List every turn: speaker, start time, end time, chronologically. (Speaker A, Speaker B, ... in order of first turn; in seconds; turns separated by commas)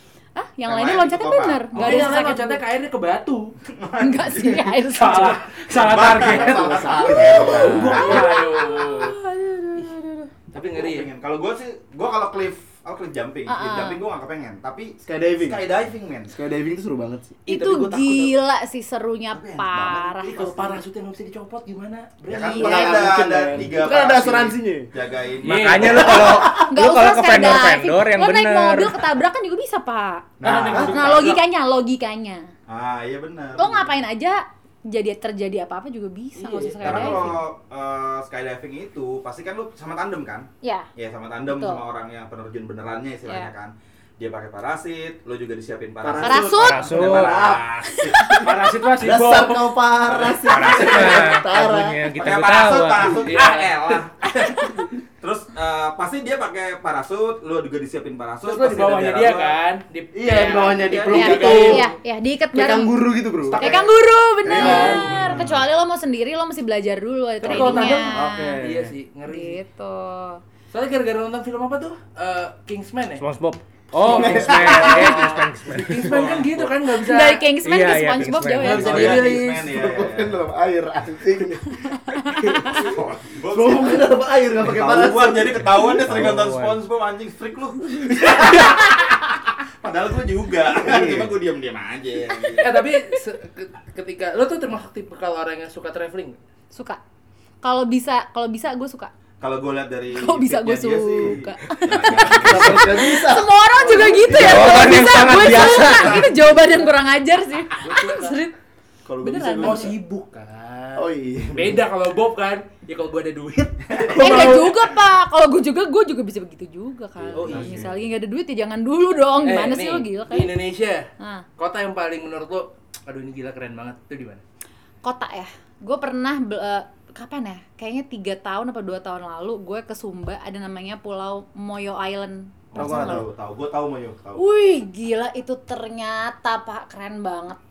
Speaker A: 0.4-2.6, Speaker B: 0.7-2.2, Speaker C: 1.7-3.5, Speaker B: 3.7-4.8, Speaker A: 4.0-5.5, Speaker C: 5.0-9.2, Speaker B: 5.7-8.2, Speaker D: 6.0-8.2, Speaker A: 7.0-10.3, Speaker C: 10.5-11.1, Speaker B: 10.6-16.3, Speaker A: 13.5-14.0, Speaker D: 15.1-15.6, Speaker D: 16.3-17.4, Speaker C: 17.5-18.4, Speaker A: 17.5-20.7, Speaker B: 19.3-20.7, Speaker C: 20.2-23.1, Speaker B: 22.3-26.4, Speaker D: 22.5-24.9, Speaker C: 25.4-26.1, Speaker E: 25.4-29.1, Speaker D: 26.0-26.7, Speaker A: 26.1-32.5, Speaker B: 30.4-31.4, Speaker C: 30.4-31.4, Speaker B: 32.7-33.9, Speaker A: 33.6-37.4, Speaker C: 36.4-37.4, Speaker B: 36.8-48.4, Speaker A: 40.6-40.9, Speaker A: 41.5-41.8, Speaker D: 46.0-52.2, Speaker A: 46.2-46.9, Speaker E: 46.6-47.5, Speaker A: 47.8-48.5, Speaker C: 48.3-49.8, Speaker B: 50.0-51.4, Speaker E: 50.5-53.2, Speaker B: 52.1-54.3, Speaker C: 53.2-54.9, Speaker B: 55.2-59.6, Speaker C: 58.4-61.9, Speaker D: 60.1-61.9, Speaker A: 61.1-68.6, Speaker D: 62.5-63.8, Speaker B: 63.5-63.8, Speaker B: 64.4-65.7, Speaker D: 64.5-65.4, Speaker C: 64.6-65.0, Speaker C: 67.4-69.6, Speaker D: 67.5-68.9, Speaker A: 69.3-70.4, Speaker C: 70.7-73.2, Speaker E: 73.2-76.2, Speaker C: 74.0-77.4, Speaker D: 74.0-75.4, Speaker B: 76.0-76.7, Speaker A: 77.0-79.3, Speaker E: 77.6-79.1, Speaker C: 78.6-79.7, Speaker B: 78.7-80.4, Speaker D: 79.1-81.8, Speaker A: 81.8-82.9, Speaker B: 82.7-92.8, Speaker D: 83.5-85.8, Speaker E: 86.0-86.8, Speaker D: 90.8-91.3, Speaker C: 92.6-96.4, Speaker A: 92.7-93.2, Speaker A: 96.7-97.0, Speaker A: 97.6-99.1, Speaker B: 99.4-103.1, Speaker A: 100.1-108.5, Speaker D: 102.4-105.0, Speaker E: 104.3-106.3, Speaker B: 105.3-106.5, Speaker C: 107.8-108.4, Speaker B: 109.1-109.9, Speaker A: 109.2-109.9, Speaker C: 109.6-114.7, Speaker D: 111.0-111.8, Speaker B: 113.9-114.7, Speaker A: 114.1-120.5, Speaker B: 117.2-118.0, Speaker C: 117.3-117.9, Speaker C: 119.4-121.1, Speaker A: 121.2-121.5, Speaker C: 121.6-124.4, Speaker A: 125.0-133.2, Speaker B: 132.7-134.4, Speaker D: 132.8-133.2, Speaker A: 134.4-137.6